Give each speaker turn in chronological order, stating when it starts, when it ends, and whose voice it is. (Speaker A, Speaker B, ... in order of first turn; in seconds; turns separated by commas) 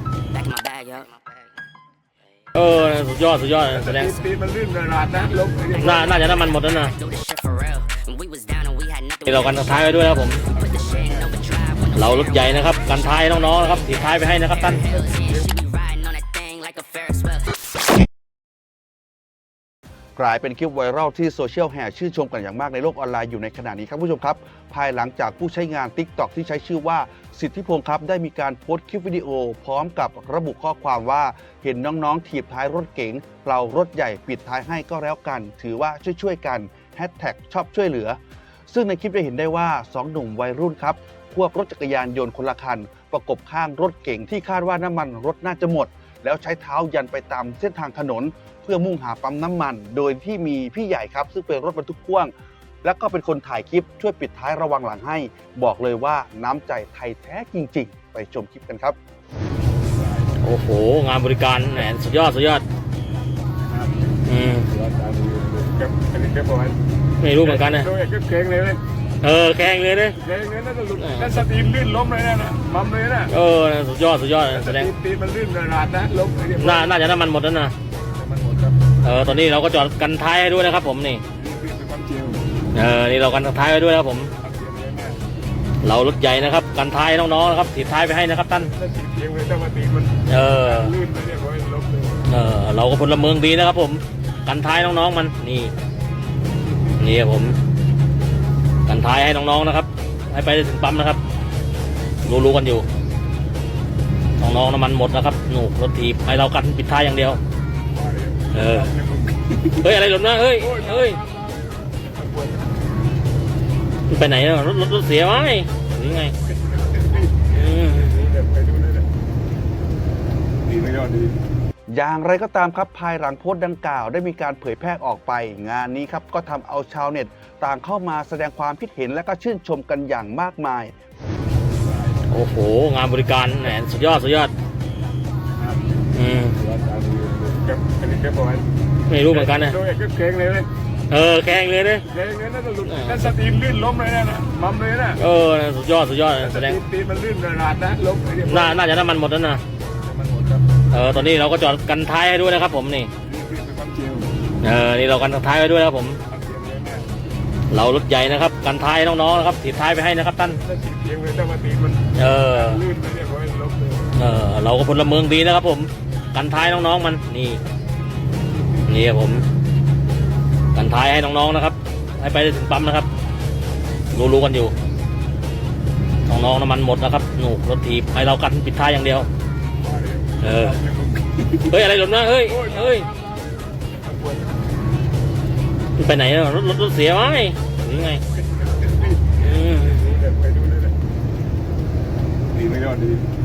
Speaker A: 0.3-1.4, Speaker B: 2.5-4.2, Speaker C: 3.7-6.3, Speaker B: 5.8-7.0, Speaker A: 6.3-13.8, Speaker B: 9.2-10.4, Speaker C: 10.5-11.4, Speaker B: 11.9-14.8, Speaker A: 14.5-17.4, Speaker C: 14.9-15.5, Speaker D: 20.2-59.0, Speaker C: 60.0-60.3, Speaker B: 60.4-62.6, Speaker C: 63.7-63.9, Speaker B: 64.3-64.7, Speaker C: 64.7-66.8, Speaker B: 67.2-67.9, Speaker C: 67.4-68.8, Speaker B: 69.2-70.2, Speaker C: 70.2-73.3, Speaker B: 71.0-71.4, Speaker B: 73.3-74.9, Speaker C: 74.5-77.1, Speaker B: 76.6-77.7, Speaker C: 78.2-78.8, Speaker B: 79.0-81.2, Speaker C: 81.4-82.4, Speaker B: 82.7-84.3, Speaker C: 84.4-85.2, Speaker B: 85.8-88.7, Speaker C: 88.8-92.2, Speaker B: 90.3-91.0, Speaker B: 92.3-95.7, Speaker B: 97.0-97.6, Speaker B: 98.9-101.2, Speaker B: 102.2-102.9, Speaker B: 104.4-107.4, Speaker C: 107.9-109.5, Speaker B: 108.5-108.9, Speaker B: 109.8-111.2, Speaker C: 110.6-111.2, Speaker C: 112.0-112.7, Speaker B: 114.1-116.3, Speaker C: 116.8-119.1, Speaker B: 117.5-118.3, Speaker C: 120.7-121.4, Speaker D: 121.9-130.9, Speaker C: 131.9-132.1, Speaker B: 132.3-134.5, Speaker B: 136.1-136.6, Speaker C: 136.6-138.7, Speaker B: 139.1-139.8, Speaker C: 139.3-140.7, Speaker B: 141.1-142.1, Speaker C: 142.1-145.2, Speaker B: 142.8-143.2, Speaker B: 145.2-146.8, Speaker C: 146.4-149.1, Speaker B: 148.4-149.6, Speaker C: 150.0-150.6, Speaker B: 150.9-153.1, Speaker C: 153.2-154.3, Speaker B: 154.6-156.2, Speaker C: 156.3-157.1, Speaker B: 157.7-160.6, Speaker C: 160.7-164.1, Speaker B: 162.2-162.8, Speaker B: 164.2-167.6, Speaker B: 168.9-169.5, Speaker B: 170.7-173.1, Speaker B: 174.1-174.7, Speaker B: 176.3-179.3, Speaker C: 179.8-181.4, Speaker B: 180.4-180.8, Speaker B: 181.6-183.1, Speaker C: 182.5-183.0, Speaker C: 183.9-184.5, Speaker B: 186.0-188.2, Speaker C: 188.8-189.3, Speaker B: 189.4-190.2, Speaker C: 189.9-190.9, Speaker C: 192.5-193.2